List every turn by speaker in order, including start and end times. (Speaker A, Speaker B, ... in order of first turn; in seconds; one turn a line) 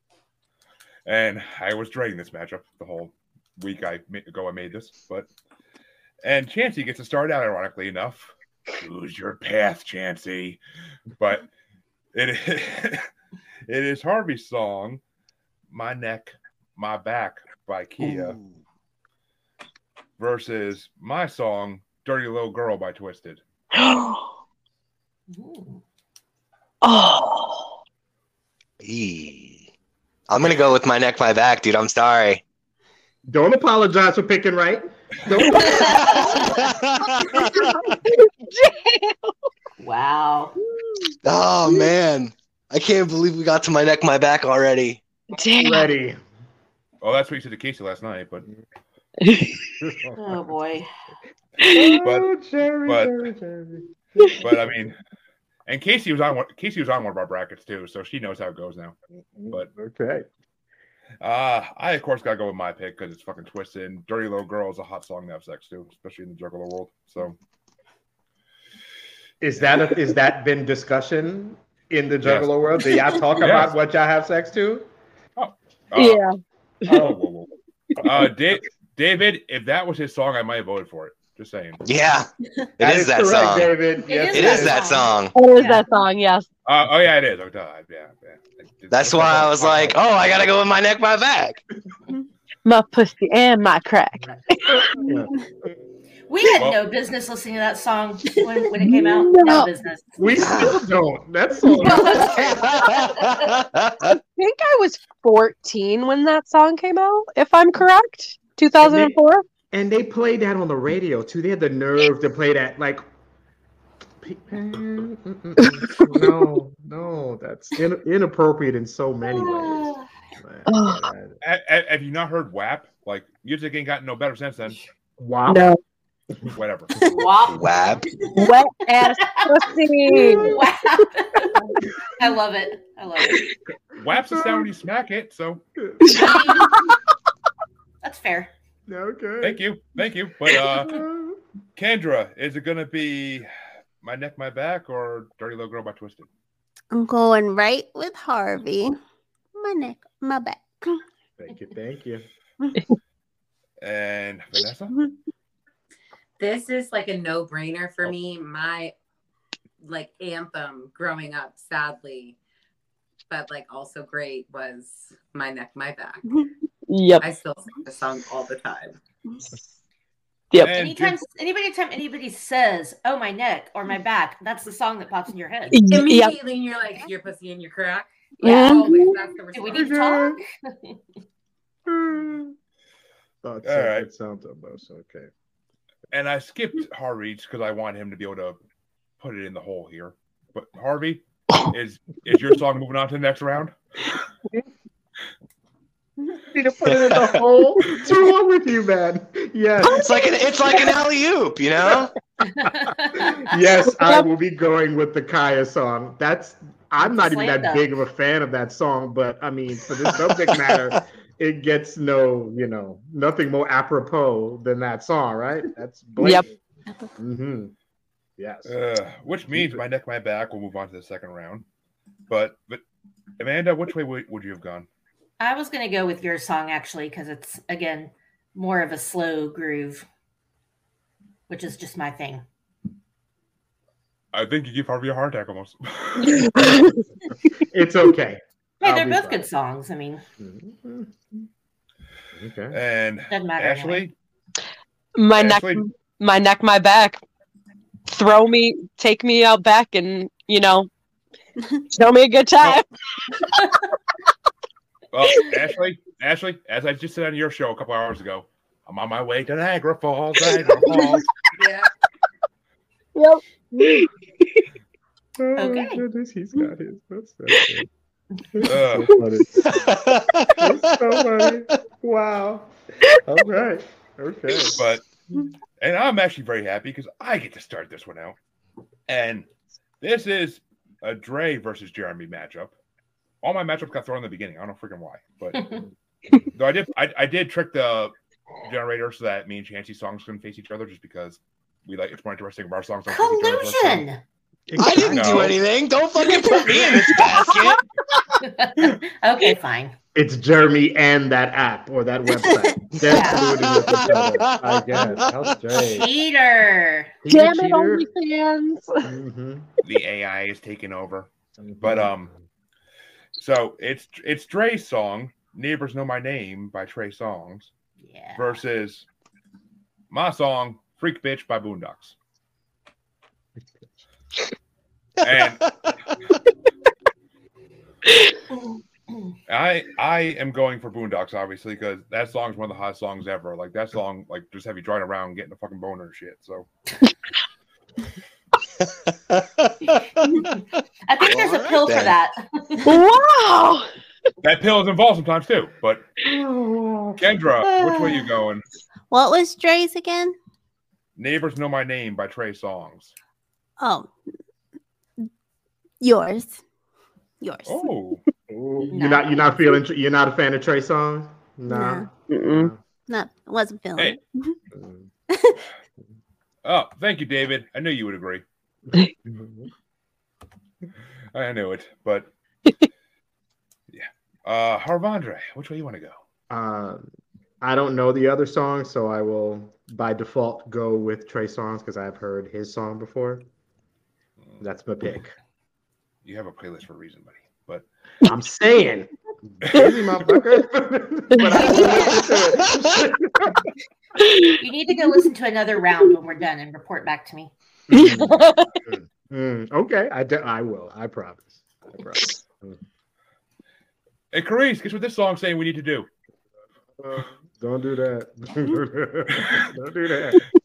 Speaker A: 1.1-5.3
Speaker A: 6.2-10.6
Speaker A: 11.2-11.5
Speaker A: 12.1-13.1
Speaker A: 13.7-15.0
Speaker A: 15.7-18.4
Speaker A: 20.2-23.4
Speaker B: 23.7-24.3
Speaker C: 25.3-25.8
Speaker B: 26.8-27.7
Speaker D: 28.8-29.7
Speaker D: 30.3-32.4
Speaker E: 33.3-36.6
Speaker C: 35.5-36.5
Speaker D: 35.9-37.7
Speaker B: 37.5-39.3
Speaker C: 39.8-40.5
Speaker D: 41.2-45.0
Speaker B: 45.3-45.9
Speaker E: 45.6-46.2
Speaker A: 47.0-48.5
Speaker B: 49.2-49.7
Speaker E: 49.8-50.6
Speaker C: 50.2-50.9
Speaker E: 51.6-54.8
Speaker B: 51.6-52.0
Speaker A: 52.0-52.3
Speaker A: 52.9-53.3
Speaker A: 54.4-55.0
Speaker A: 55.7-59.0
Speaker E: 59.3-60.3
Speaker A: 61.2-67.4
Speaker E: 69.4-74.9
Speaker A: 72.2-72.9
Speaker A: 73.4-73.8
Speaker A: 75.4-76.2
Speaker B: 76.0-77.1
Speaker A: 76.9-81.8
Speaker D: 81.8-82.3
Speaker D: 82.8-83.7
Speaker E: 82.8-84.8
Speaker C: 84.1-85.8
Speaker D: 84.3-85.3
Speaker B: 85.3-86.5
Speaker A: 86.7-90.0
Speaker D: 88.9-91.6
Speaker B: 92.7-95.0
Speaker E: 94.7-95.7
Speaker C: 96.3-100.2
Speaker B: 99.0-99.7
Speaker E: 100.2-102.9
Speaker D: 100.4-100.8
Speaker B: 101.8-102.2
Speaker C: 101.8-103.5
Speaker D: 102.4-104.1
Speaker B: 104.1-109.4
Speaker E: 108.8-109.1
Speaker E: 109.7-113.0
Speaker E: 114.2-121.4
Speaker B: 115.7-116.3
Speaker C: 119.3-120.1
Speaker B: 120.7-121.0
Speaker A: 121.4-124.8
Speaker E: 125.2-125.7
Speaker B: 125.5-125.8
Speaker A: 126.5-126.9
Speaker C: 127.1-127.7
Speaker D: 127.5-128.0
Speaker B: 128.3-130.6
Speaker C: 129.2-129.5
Speaker C: 130.1-131.6
Speaker C: 132.2-133.4
Speaker A: 134.0-135.6
Speaker E: 134.3-134.7
Speaker E: 135.8-136.6
Speaker B: 136.1-136.9
Speaker C: 136.1-136.7
Speaker C: 138.0-138.5
Speaker E: 138.9-139.6
Speaker A: 139.4-141.0
Speaker E: 140.7-141.4
Speaker A: 141.8-143.5
Speaker A: 144.0-146.3
Speaker F: 146.9-149.0
Speaker F: 149.6-151.0
Speaker E: 151.4-152.3
Speaker A: 153.8-154.9
Speaker G: 156.4-158.9
Speaker G: 159.8-162.4
Speaker G: 163.3-166.2
Speaker B: 166.9-167.3
Speaker G: 167.2-169.0
Speaker A: 170.6-171.2
Speaker C: 170.7-175.8
Speaker B: 175.7-176.4
Speaker G: 175.9-180.0
Speaker B: 178.4-179.1
Speaker C: 178.4-178.8
Speaker C: 179.5-181.0
Speaker E: 179.7-180.4
Speaker E: 181.9-182.6
Speaker E: 183.4-185.3
Speaker A: 183.6-184.1
Speaker A: 186.1-188.6
Speaker A: 189.2-193.8
Speaker E: 196.5-200.2
Speaker D: 196.9-197.3
Speaker D: 199.9-202.1
Speaker B: 200.7-201.0
Speaker C: 202.4-203.6
Speaker E: 203.2-216.5
Speaker B: 203.9-204.3
Speaker C: 207.0-207.9
Speaker B: 216.2-216.5
Speaker E: 217.2-217.7
Speaker E: 218.4-218.7
Speaker A: 218.7-221.7
Speaker E: 219.5-219.8
Speaker A: 222.3-222.8
Speaker A: 223.4-224.9
Speaker C: 225.4-230.1
Speaker C: 231.5-232.4
Speaker A: 234.3-236.7
Speaker B: 236.2-237.0
Speaker E: 237.7-239.5
Speaker C: 238.8-240.2
Speaker E: 240.4-241.5
Speaker E: 242.3-242.8
Speaker A: 242.7-244.1
Speaker C: 243.3-244.0
Speaker B: 245.2-247.2
Speaker A: 245.3-245.8
Speaker B: 248.1-250.9
Speaker B: 251.9-252.9
Speaker A: 255.1-261.3
Speaker G: 261.6-261.9
Speaker B: 263.1-264.5
Speaker E: 265.4-267.9
Speaker C: 265.6-266.0
Speaker E: 268.5-269.7
Speaker A: 268.6-269.2
Speaker D: 269.7-271.0
Speaker E: 270.6-274.8
Speaker A: 274.8-275.0
Speaker A: 275.8-278.4
Speaker A: 279.1-279.5
Speaker A: 280.0-282.8
Speaker A: 283.4-285.6
Speaker C: 285.6-285.8
Speaker A: 286.5-294.1
Speaker C: 293.1-294.2
Speaker E: 294.7-295.6
Speaker D: 294.8-297.8
Speaker A: 295.0-295.6
Speaker B: 296.3-297.7
Speaker C: 298.4-299.9
Speaker E: 300.1-306.1
Speaker C: 303.1-303.5
Speaker D: 303.6-305.5
Speaker C: 305.7-307.1
Speaker E: 307.2-308.1
Speaker B: 307.3-309.1
Speaker E: 309.0-309.7
Speaker A: 309.8-311.3
Speaker E: 311.6-312.4
Speaker A: 311.8-312.3
Speaker A: 313.4-317.7
Speaker C: 318.0-318.6
Speaker A: 318.4-319.1
Speaker A: 320.1-322.1
Speaker A: 325.2-325.7
Speaker A: 329.5-336.7
Speaker D: 339.3-339.9
Speaker C: 340.3-342.9
Speaker D: 341.2-342.1
Speaker B: 342.8-343.9
Speaker A: 344.4-346.1
Speaker E: 346.2-347.3
Speaker A: 347.2-348.6
Speaker C: 347.6-348.2
Speaker F: 349.1-350.4
Speaker A: 351.2-353.1
Speaker F: 353.8-354.1
Speaker F: 356.0-356.6
Speaker F: 357.4-357.9
Speaker A: 357.7-358.2
Speaker E: 358.5-362.8
Speaker C: 358.9-359.4
Speaker F: 361.7-362.1
Speaker B: 362.3-362.7
Speaker F: 363.1-364.6
Speaker E: 364.7-365.1
Speaker F: 365.3-365.6
Speaker A: 366.6-368.4
Speaker E: 368.9-369.7
Speaker A: 371.3-372.3
Speaker A: 373.9-376.2
Speaker E: 376.5-383.5
Speaker E: 384.6-385.3
Speaker A: 386.2-387.9
Speaker E: 388.2-393.7
Speaker B: 391.4-392.2
Speaker B: 394.2-394.6
Speaker C: 394.6-397.5
Speaker E: 397.9-402.8
Speaker B: 397.9-398.7
Speaker A: 404.3-406.1
Speaker E: 407.0-410.4